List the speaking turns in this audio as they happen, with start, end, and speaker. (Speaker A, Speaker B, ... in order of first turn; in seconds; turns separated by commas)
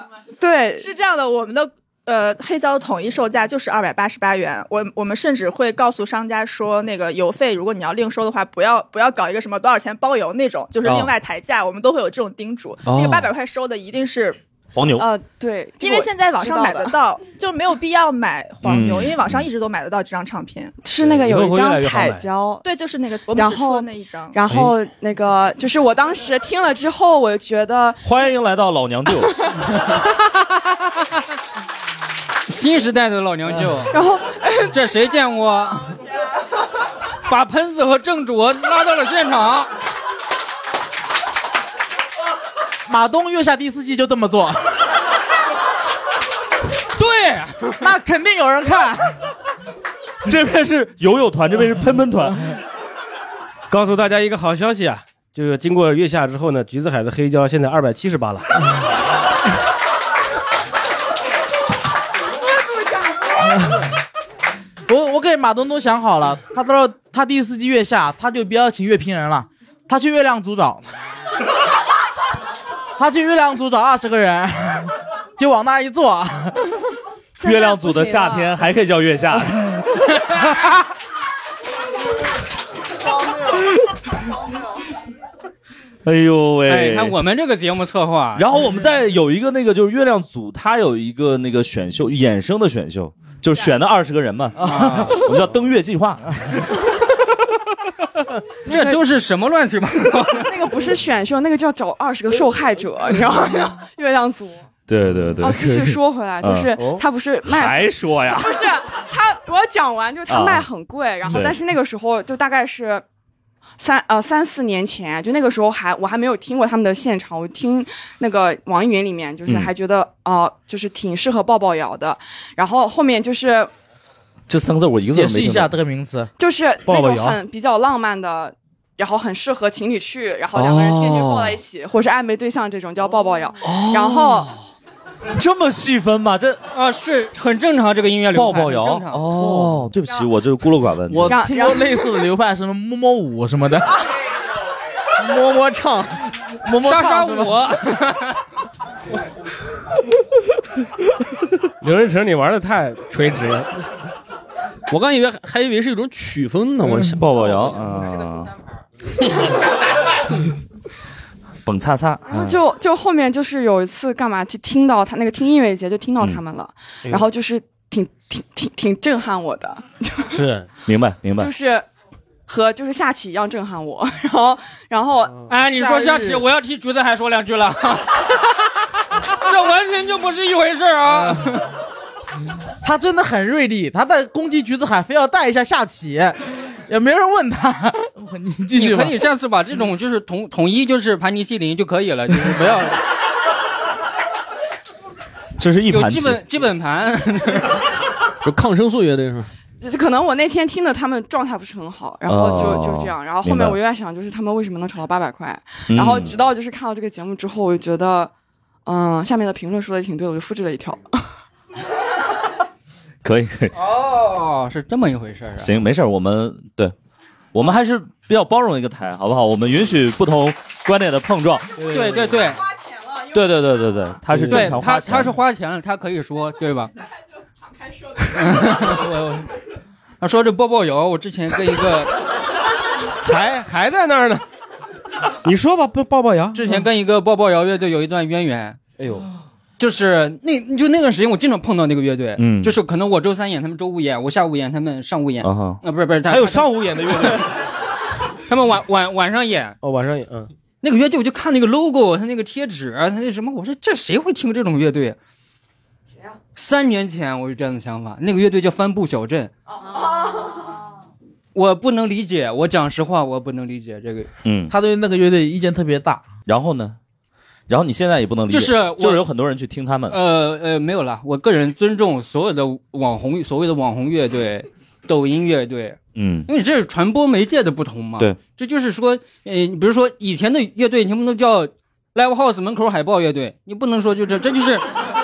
Speaker A: 0.4-0.8, Speaker B: 0.8-14.4, Speaker C: 10.8-11.1, Speaker C: 12.8-13.3, Speaker C: 14.7-15.1, Speaker A: 14.9-16.9, Speaker B: 15.8-20.8, Speaker C: 18.6-19.4, Speaker A: 20.8-22.6, Speaker D: 20.9-22.3, Speaker B: 22.6-24.4, Speaker A: 23.3-28.0, Speaker C: 28.0-29.4, Speaker E: 32.5-33.9, Speaker A: 33.9-34.7, Speaker E: 34.7-35.9, Speaker E: 37.3-39.7, Speaker F: 42.9-44.8, Speaker E: 46.9-47.9, Speaker F: 47.8-49.2, Speaker C: 50.2-52.6, Speaker D: 53.7-58.5, Speaker F: 64.9-70.9, Speaker F: 73.0-76.6, Speaker A: 77.4-78.5, Speaker C: 77.4-79.7, Speaker C: 86.0-87.2, Speaker E: 86.7-88.5, Speaker C: 88.3-96.5, Speaker E: 94.6-95.3, Speaker F: 94.6-95.1, Speaker E: 98.7-100.6, Speaker A: 98.7-99.0, Speaker A: 100.4-104.7, Speaker C: 104.9-106.7, Speaker A: 105.4-113.0, Speaker D: 106.8-107.0, Speaker C: 107.4-108.7, Speaker C: 110.3-110.7, Speaker C: 111.3-111.6, Speaker A: 113.8-123.7, Speaker C: 124.5-125.7, Speaker F: 125.1-126.3, Speaker A: 126.4-134.5, Speaker D: 126.8-127.4, Speaker C: 130.5-131.6, Speaker C: 133.6-134.6, Speaker C: 135.3-136.6, Speaker E: 136.7-139.7, Speaker C: 138.3-141.4, Speaker F: 141.1-143.9, Speaker A: 141.2-142.1, Speaker F: 145.2-148.0, Speaker E: 146.8-148.4, Speaker D: 151.8-153.9, Speaker G: 154.9-157.4, Speaker C: 157.2-158.5, Speaker C: 161.6-162.6, Speaker A: 162.2-170.4, Speaker D: 170.3-170.7, Speaker C: 170.9-171.5, Speaker A: 171.4-171.8, Speaker A: 172.5-175.5, Speaker E: 175.5-178.3, Speaker F: 175.7-176.4, Speaker E: 179.4-181.7, Speaker F: 181.1-181.5, Speaker F: 182.8-189.2, Speaker E: 188.8-193.0, Speaker C: 195.6-196.4, Speaker E: 195.9-197.8, Speaker G: 198.4-199.5, Speaker A: 199.8-208.3, Speaker C: 202.3-203.8, Speaker C: 205.9-206.3, Speaker A: 208.8-211.4, Speaker C: 213.2-213.7, Speaker E: 213.7-215.7, Speaker C: 215.6-216.9, Speaker C: 217.5-221.8, Speaker D: 221.8-222.5, Speaker E: 221.9-222.6, Speaker C: 223.3-225.3, Speaker D: 224.3-224.8, Speaker E: 224.4-226.9, Speaker E: 228.3-229.5, Speaker E: 230.2-232.2, Speaker D: 233.2-234.4, Speaker D: 235.4-236.8, Speaker E: 236.5-238.8, Speaker D: 239.0-239.3, Speaker E: 239.8-247.4, Speaker C: 242.4-242.8, Speaker C: 245.4-245.8, Speaker D: 246.3-247.5, Speaker E: 248.5-249.8, Speaker D: 249.8-250.5, Speaker E: 250.8-255.2, Speaker E: 256.6-259.5, Speaker E: 261.5-264.3, Speaker C: 264.4-264.7, Speaker F: 264.7-266.2, Speaker C: 266.5-267.0, Speaker C: 267.7-270.2, Speaker E: 268.5-269.2, Speaker E: 270.1-284.9, Speaker C: 276.1-276.5